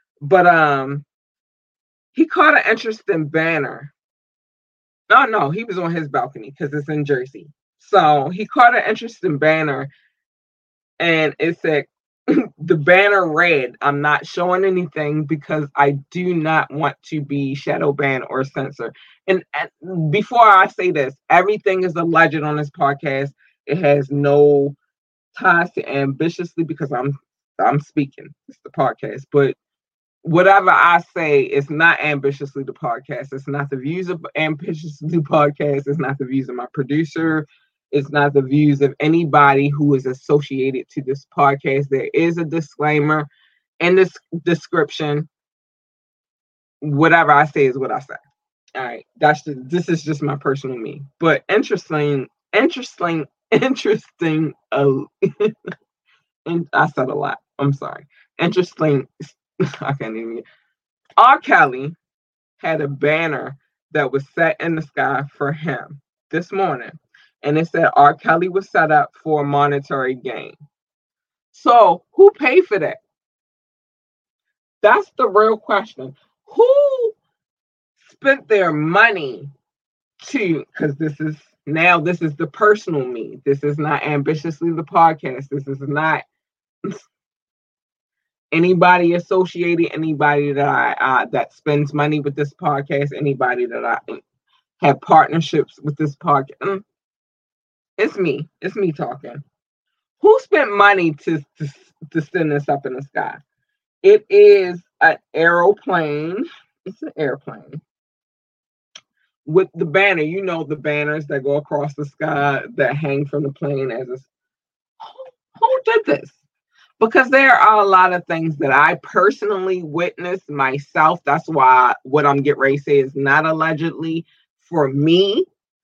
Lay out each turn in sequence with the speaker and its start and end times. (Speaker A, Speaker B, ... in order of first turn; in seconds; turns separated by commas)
Speaker A: 0.2-1.0, Speaker A: 2.1-3.9, Speaker A: 5.1-9.9, Speaker A: 11.0-24.8, Speaker A: 25.3-29.6, Speaker A: 30.2-43.3, Speaker A: 43.8-45.3, Speaker A: 46.8-48.2, Speaker A: 48.8-55.5, Speaker A: 56.5-60.4, Speaker A: 61.2-62.0, Speaker A: 62.6-70.6, Speaker A: 71.5-73.0, Speaker A: 74.8-77.2, Speaker A: 78.0-79.5, Speaker A: 80.2-86.2, Speaker A: 88.5-94.2, Speaker A: 94.8-96.8, Speaker A: 98.0-99.4, Speaker A: 100.2-103.4, Speaker A: 104.0-107.8, Speaker A: 109.5-114.3, Speaker A: 115.0-116.4, Speaker A: 117.0-125.5